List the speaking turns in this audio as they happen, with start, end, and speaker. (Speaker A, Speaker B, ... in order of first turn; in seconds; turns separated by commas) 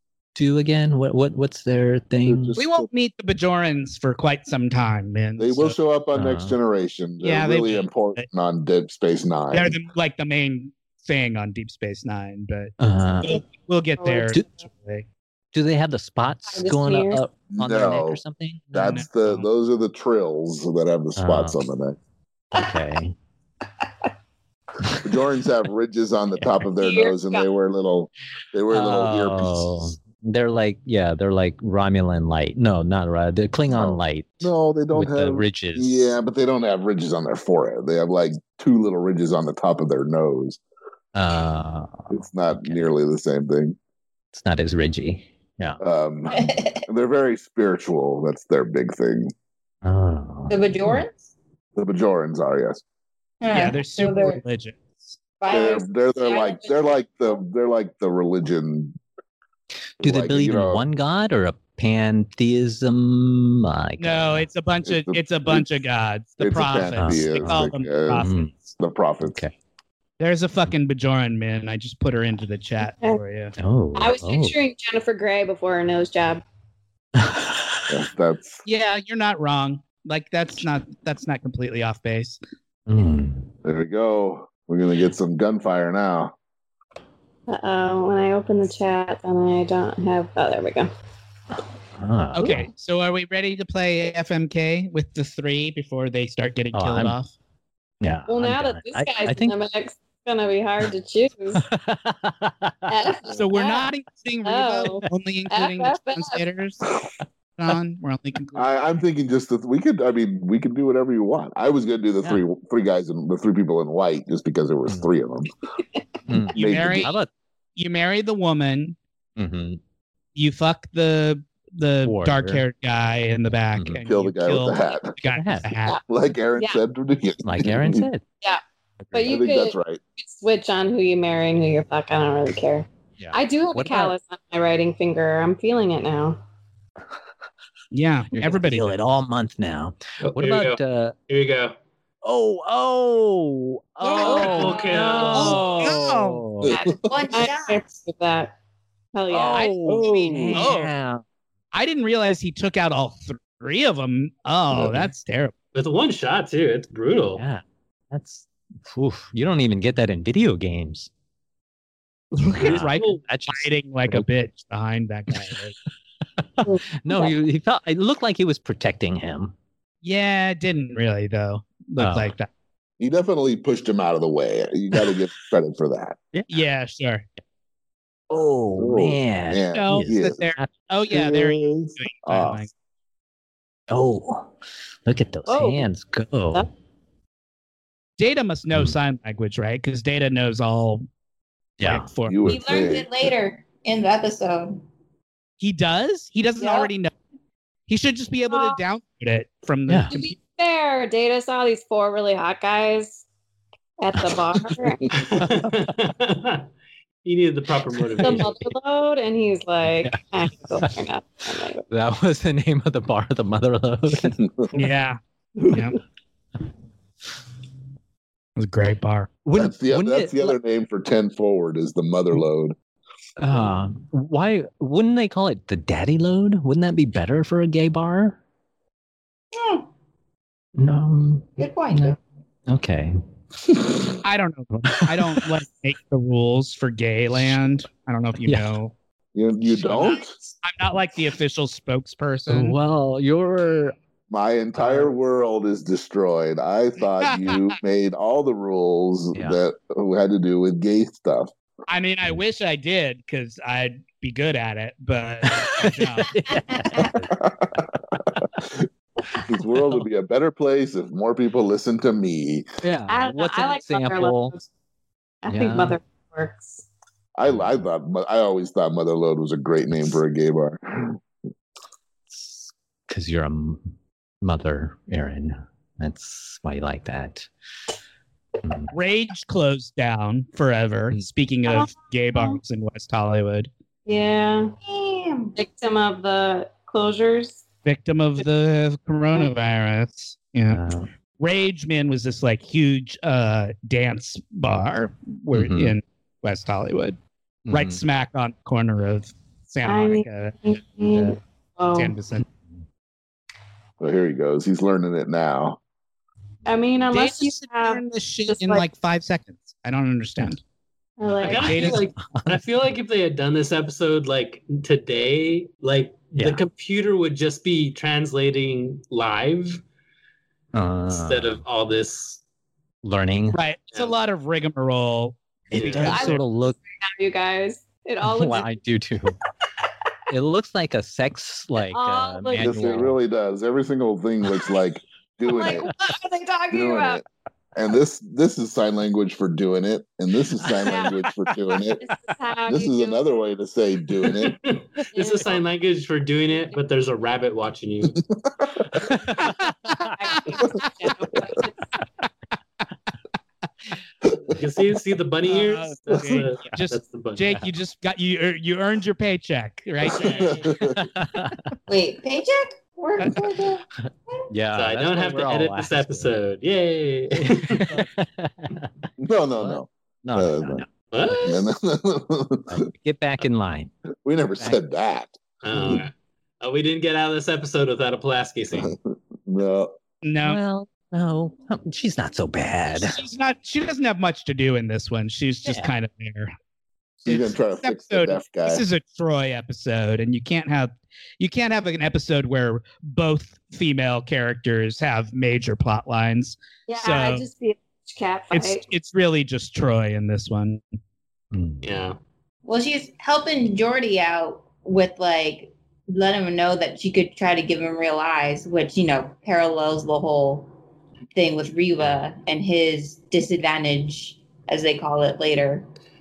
Speaker A: 0.3-2.5, Speaker B: 2.2-2.9, Speaker C: 2.5-5.8, Speaker B: 5.4-9.8, Speaker A: 6.1-6.5, Speaker C: 7.2-8.3, Speaker C: 9.5-15.1, Speaker A: 12.8-13.4, Speaker D: 14.0-14.3, Speaker A: 15.5-18.6, Speaker D: 16.5-17.2, Speaker B: 17.5-18.2, Speaker C: 18.7-19.5, Speaker B: 18.7-22.0, Speaker A: 21.2-21.6, Speaker A: 22.5-23.1, Speaker A: 24.8-25.1, Speaker B: 25.0-29.9, Speaker D: 26.8-27.4, Speaker A: 28.7-36.1, Speaker B: 33.7-40.6, Speaker A: 41.1-42.9, Speaker B: 42.1-43.8, Speaker A: 44.3-45.8, Speaker B: 45.8-49.3, Speaker E: 46.3-46.8, Speaker A: 49.8-51.0, Speaker E: 50.5-51.3, Speaker B: 51.8-52.8, Speaker E: 53.4-54.4, Speaker C: 53.5-55.2, Speaker E: 55.4-57.0, Speaker B: 55.5-59.0, Speaker B: 60.0-60.8, Speaker A: 60.0-64.5, Speaker C: 64.0-68.5, Speaker B: 64.8-65.7, Speaker B: 66.4-69.4, Speaker A: 67.0-68.5, Speaker A: 69.2-69.5, Speaker C: 70.2-73.5, Speaker A: 73.6-74.5, Speaker D: 73.9-76.4, Speaker A: 77.2-77.9, Speaker B: 77.9-78.6, Speaker C: 78.6-82.4, Speaker A: 82.9-83.5, Speaker B: 83.6-86.3, Speaker D: 87.5-90.9, Speaker A: 92.0-92.7, Speaker C: 92.3-97.3, Speaker A: 96.7-97.2, Speaker A: 98.0-99.6, Speaker D: 98.3-101.6, Speaker A: 101.5-102.9, Speaker D: 102.9-103.9, Speaker C: 103.3-106.9, Speaker D: 104.4-106.4, Speaker C: 107.6-108.7, Speaker B: 108.5-115.5, Speaker A: 116.3-117.3, Speaker B: 116.5-117.1, Speaker C: 116.5-117.1, Speaker C: 117.8-119.0, Speaker A: 119.4-119.8, Speaker C: 120.3-126.0, Speaker A: 122.0-122.6, Speaker B: 124.0-125.2, Speaker A: 125.3-125.7, Speaker B: 126.1-128.1, Speaker A: 127.4-128.2, Speaker A: 129.0-129.3, Speaker D: 129.1-136.4, Speaker B: 129.2-130.0, Speaker A: 133.2-134.1, Speaker C: 137.9-138.9, Speaker A: 138.3-141.2, Speaker F: 140.2-141.8, Speaker A: 142.2-146.8, Speaker C: 144.1-144.6, Speaker D: 144.2-145.5, Speaker F: 144.3-145.6, Speaker E: 144.3-145.2, Speaker C: 145.3-146.4, Speaker B: 146.6-147.2, Speaker D: 146.7-148.5, Speaker E: 147.0-147.9, Speaker D: 149.1-149.7, Speaker A: 149.3-151.2, Speaker C: 149.5-150.9, Speaker B: 149.8-150.7, Speaker C: 151.7-155.5, Speaker B: 154.7-155.1, Speaker F: 155.7-157.4, Speaker A: 157.3-161.1, Speaker C: 162.3-165.8, Speaker A: 162.6-164.2, Speaker F: 162.6-163.2, Speaker A: 166.6-169.5, Speaker D: 166.6-167.3, Speaker C: 170.0-172.5, Speaker A: 172.0-172.3, Speaker B: 173.0-176.2, Speaker C: 176.5-177.2, Speaker A: 178.3-180.7, Speaker B: 178.8-180.4, Speaker C: 179.7-182.7, Speaker B: 181.1-182.7, Speaker A: 183.9-184.5, Speaker A: 185.1-186.7, Speaker D: 185.5-185.9, Speaker C: 188.2-191.1, Speaker A: 191.8-192.1, Speaker C: 191.8-192.5, Speaker B: 192.3-193.1, Speaker E: 192.4-194.8, Speaker C: 195.6-197.1, Speaker E: 196.6-196.9, Speaker C: 197.9-200.3, Speaker D: 198.5-198.8, Speaker D: 200.1-203.2, Speaker D: 204.0-205.1, Speaker F: 205.1-206.7, Speaker A: 205.3-205.8, Speaker F: 207.2-208.6, Speaker A: 208.0-208.5, Speaker D: 208.2-211.8, Speaker A: 211.9-214.4, Speaker C: 214.7-216.0, Speaker C: 218.6-219.3, Speaker A: 219.4-220.6, Speaker B: 219.5-222.8, Speaker A: 223.4-228.4, Speaker E: 229.5-229.9, Speaker A: 230.8-232.1, Speaker E: 231.6-232.2, Speaker A: 232.7-233.2, Speaker C: 234.2-238.9, Speaker A: 238.4-238.7, Speaker B: 239.3-240.3, Speaker C: 239.8-242.8, Speaker A: 242.5-243.9, Speaker B: 244.3-251.5, Speaker A: 244.8-245.0, Speaker C: 247.2-247.7, Speaker A: 249.3-249.6, Speaker C: 251.9-256.3, Speaker A: 255.4-257.5, Speaker B: 257.4-257.9, Speaker B: 258.4-258.9, Speaker B: 259.4-262.6, Speaker A: 262.8-264.5, Speaker D: 263.1-264.6, Speaker D: 265.4-266.8, Speaker A: 265.5-266.0, Speaker B: 267.4-271.2, Speaker A: 267.4-267.7, Speaker A: 272.3-273.9, Speaker A: 274.4-277.5, Speaker A: 278.6-278.9, Speaker C: 278.9-283.7, Speaker D: 281.7-282.6, Speaker D: 284.1-284.7, Speaker E: 284.8-285.6, Speaker D: 285.6-287.6, Speaker C: 287.8-290.8, Speaker A: 290.7-291.1, Speaker C: 291.4-297.2, Speaker A: 295.5-295.9, Speaker A: 297.7-298.0, Speaker C: 297.7-301.3, Speaker D: 299.9-302.1, Speaker C: 301.9-302.4, Speaker B: 304.0-305.8, Speaker D: 306.6-308.8, Speaker C: 307.1-310.6, Speaker D: 311.2-311.9, Speaker F: 311.4-319.8, Speaker C: 311.5-312.1, Speaker A: 311.8-312.6, Speaker A: 316.3-316.6, Speaker A: 320.7-321.6, Speaker F: 321.1-322.4, Speaker A: 323.0-323.6, Speaker C: 323.5-326.4, Speaker A: 325.7-326.8, Speaker F: 325.7-326.2, Speaker D: 325.9-328.7, Speaker A: 328.2-329.4, Speaker A: 330.3-333.2, Speaker D: 331.9-333.0, Speaker B: 332.6-335.9, Speaker D: 335.4-337.2, Speaker B: 336.7-342.0, Speaker A: 340.6-341.5, Speaker D: 340.8-341.2, Speaker D: 342.0-343.2, Speaker B: 342.7-344.6, Speaker F: 344.4-348.2, Speaker D: 345.1-345.6, Speaker A: 349.0-350.1, Speaker C: 349.4-350.6, Speaker D: 350.1-351.7, Speaker B: 354.3-354.5, Speaker F: 354.5-357.5, Speaker C: 355.4-360.7, Speaker B: 360.3-361.0, Speaker A: 360.8-361.6, Speaker E: 361.9-364.4, Speaker A: 364.5-366.3, Speaker F: 364.7-368.0, Speaker A: 367.4-368.9, Speaker B: 369.2-370.8, Speaker A: 369.6-370.9, Speaker F: 371.1-371.7, Speaker B: 371.4-372.8, Speaker A: 372.7-373.9, Speaker B: 374.2-376.0, Speaker F: 375.6-378.9, Speaker B: 378.7-379.9, Speaker C: 380.2-380.6, Speaker A: 380.4-383.2, Speaker C: 382.9-386.5, Speaker A: 385.6-385.9, Speaker B: 387.2-388.8, Speaker C: 387.3-397.4, Speaker D: 396.9-398.8, Speaker C: 398.5-400.8, Speaker A: 401.5-401.9, Speaker F: 401.8-402.2, Speaker E: 402.6-410.7, Speaker E: 411.3-415.9